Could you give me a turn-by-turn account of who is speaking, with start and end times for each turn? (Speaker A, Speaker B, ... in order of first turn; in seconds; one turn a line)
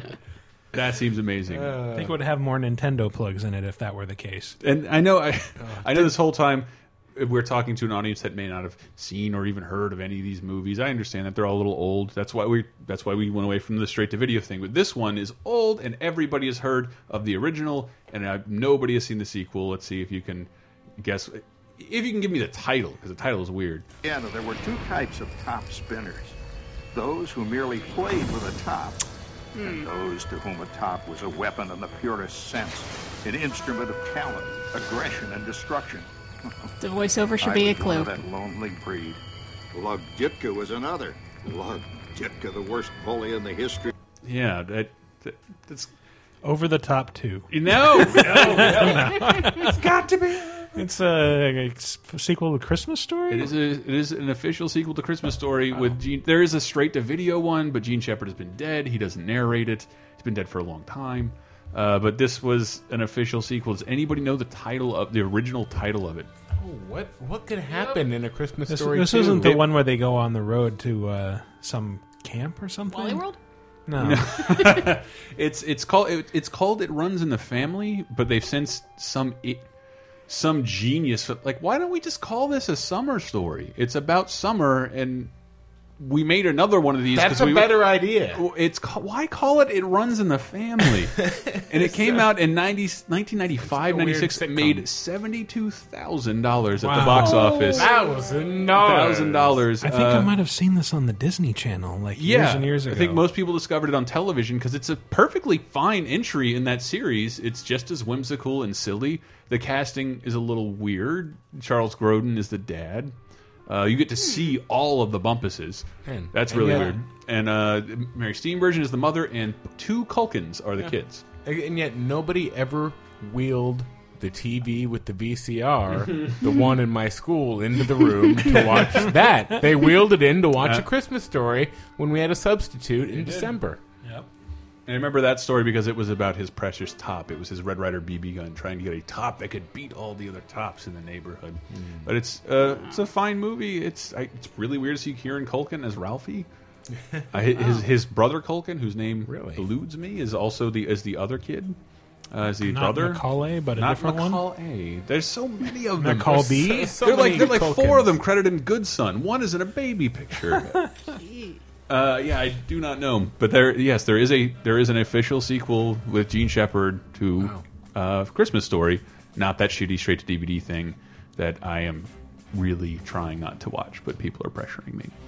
Speaker A: 0.7-1.8
Speaker B: 1.5-2.2
Speaker C: 1.9-4.6
Speaker A: 4.6-23.8
Speaker B: 5.6-6.1
Speaker D: 24.0-26.4
Speaker D: 26.9-29.0
Speaker E: 29.5-29.9
Speaker D: 29.6-36.1
Speaker E: 36.8-38.2
Speaker D: 37.4-39.2
Speaker D: 39.7-43.9
Speaker A: 44.2-45.9
Speaker C: 46.4-49.8
Speaker A: 47.5-50.7
Speaker C: 50.7-53.5
Speaker A: 53.3-66.3
Speaker B: 66.5-69.6
Speaker E: 67.7-68.0
Speaker C: 68.7-73.2
Speaker E: 72.9-73.4
Speaker C: 73.9-74.9
Speaker A: 74.0-79.6
Speaker A: 80.3-85.3
Speaker A: 86.0-97.9
Speaker B: 87.1-88.4
Speaker B: 91.2-92.3
Speaker B: 93.6-94.8
Speaker C: 96.8-97.3
Speaker E: 97.0-98.1
Speaker B: 97.0-99.6
Speaker A: 98.8-100.3
Speaker C: 99.8-103.2
Speaker A: 102.2-113.1
Speaker A: 113.7-121.2
Speaker E: 114.2-114.5
Speaker B: 116.0-117.0
Speaker B: 121.4-133.8
Speaker A: 134.9-146.5
Speaker B: 141.7-142.1
Speaker E: 142.6-143.0
Speaker B: 146.9-147.2
Speaker A: 147.3-151.8
Speaker E: 147.6-147.8
Speaker B: 149.2-149.6
Speaker A: 152.3-160.8
Speaker C: 152.6-154.4
Speaker C: 156.0-157.0
Speaker B: 156.5-158.2
Speaker E: 161.1-161.6
Speaker A: 161.9-175.1
Speaker B: 167.4-167.6